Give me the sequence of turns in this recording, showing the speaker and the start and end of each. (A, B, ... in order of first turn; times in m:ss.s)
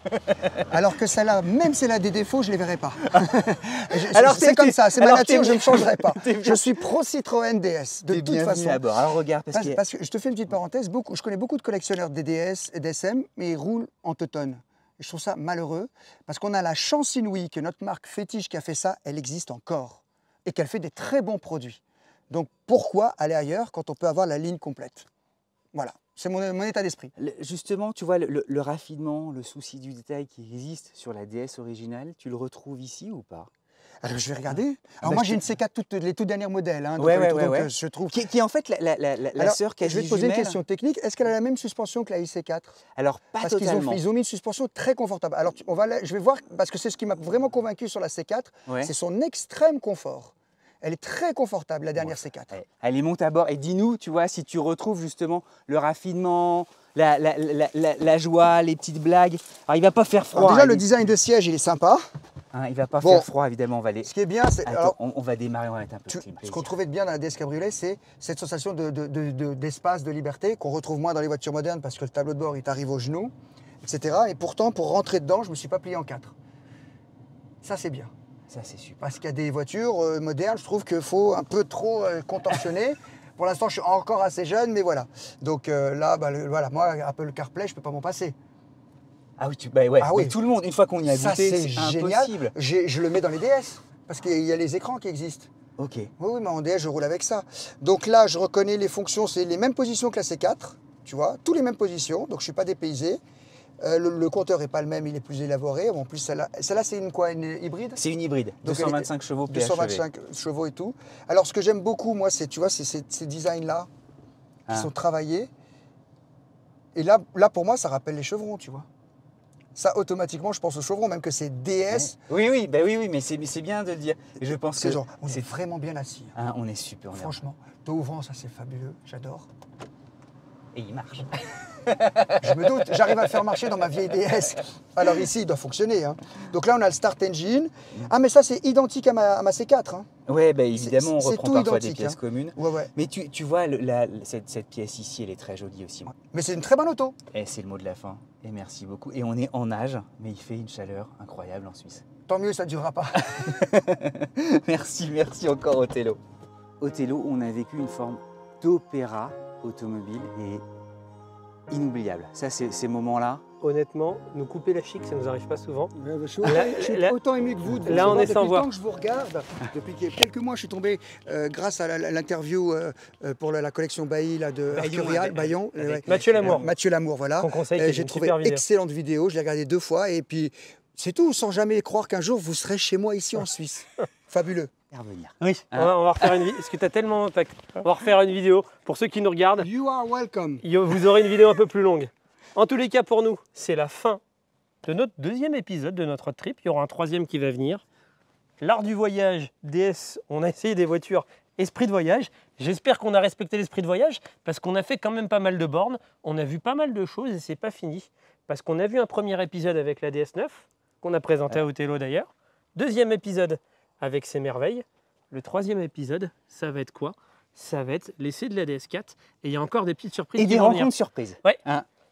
0:00.2-0:00.5 A
0:00.5-0:08.8 B
0:03.1-0:06.8 A
0:08.1-0:09.8 A
0:09.5-0:25.1 B
0:25.7-0:27.1 B
0:27.2-0:33.5 A
0:34.0-0:38.2 B
0:35.0-0:35.5 A
0:37.0-0:40.6 A
0:39.4-0:42.7 B
0:43.0-0:44.0 A
0:43.4-0:52.5 B
0:48.7-0:48.9 A
0:52.0-1:00.9 A
1:00.3-1:02.0 B
1:02.5-1:04.1 A
1:03.0-1:03.3 B
1:04.0-1:04.9 B
1:04.6-1:06.7 A
1:06.1-1:16.3 B
1:17.6-1:18.1 B
1:18.5-1:19.0 A
1:19.0-1:28.4 B
1:29.4-1:32.5 A
1:30.0-1:30.3 B
1:31.1-1:35.5 B
1:35.8-1:36.1 A
1:36.2-1:43.2 B
1:43.8-1:48.0 B
1:48.0-1:50.0 A
1:48.6-1:53.9 B
1:54.7-1:55.5 B
1:56.9-1:58.9 B
1:59.7-2:02.2 B
2:01.9-2:05.4 A
2:04.7-2:06.3 B
2:06.3-2:07.4 A
2:07.1-2:09.5 B
2:10.7-2:13.2 A
2:12.4-2:20.1 B
2:20.2-2:26.1 A
2:20.7-2:22.9 B
2:26.3-2:27.2 B
2:27.3-2:32.0 A
2:32.3-2:33.7 B
2:33.2-2:36.2 A
2:36.8-2:40.6 A
2:41.7-2:43.4 A
2:43.6-2:45.9 C
2:45.9-3:04.7 B
2:46.4-2:47.2 C
2:47.7-2:48.7 C
2:47.8-2:48.3 A
2:54.7-2:56.7 A
2:56.1-2:56.7 C
2:57.4-2:58.6 C
3:04.9-3:06.2 A
3:05.7-3:09.7 C
3:09.6-3:10.6 B
3:10.6-3:14.2 C
3:14.8-3:17.8 C
3:18.6-3:40.9 C
3:40.4-3:41.8 A